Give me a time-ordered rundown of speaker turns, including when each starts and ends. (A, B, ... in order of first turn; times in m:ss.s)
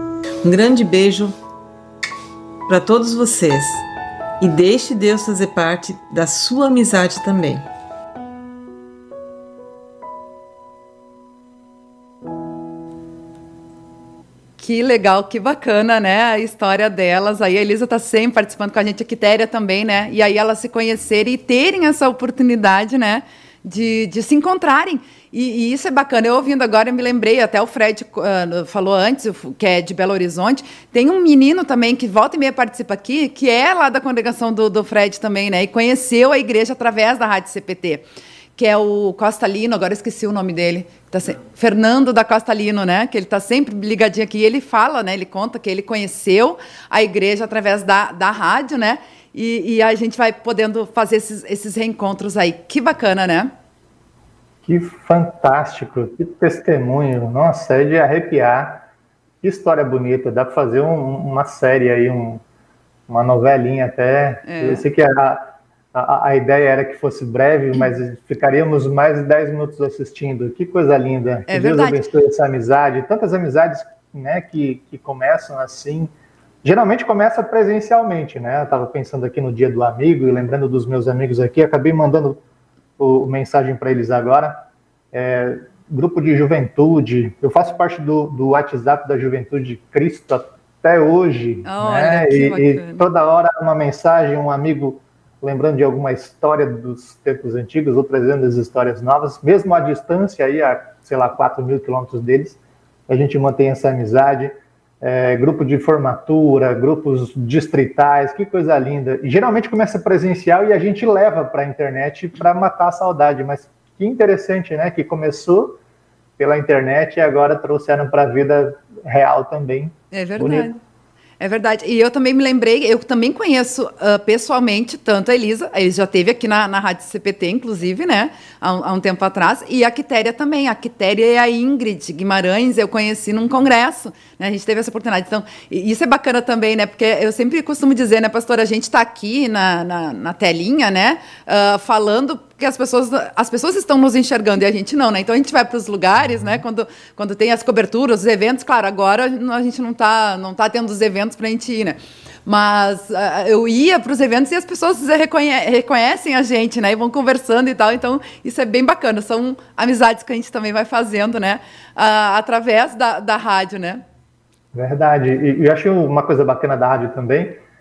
0:00.4-0:01.4 A
0:02.7-0:03.8 A
0:04.4-0:07.6 A
0:14.6-0:38.0 B
0:38.6-0:53.5 B
0:54.6-0:58.8 C
0:59.4-1:02.4 C
1:03.1-1:16.1 C
1:04.5-1:04.8 B
1:11.5-1:12.0 B
1:16.6-1:22.4 C
1:23.0-1:55.8 C
1:31.6-1:33.0 B
1:56.4-2:00.7 C
2:00.1-2:00.8 B
2:01.4-2:44.0 B
2:44.7-2:47.6 C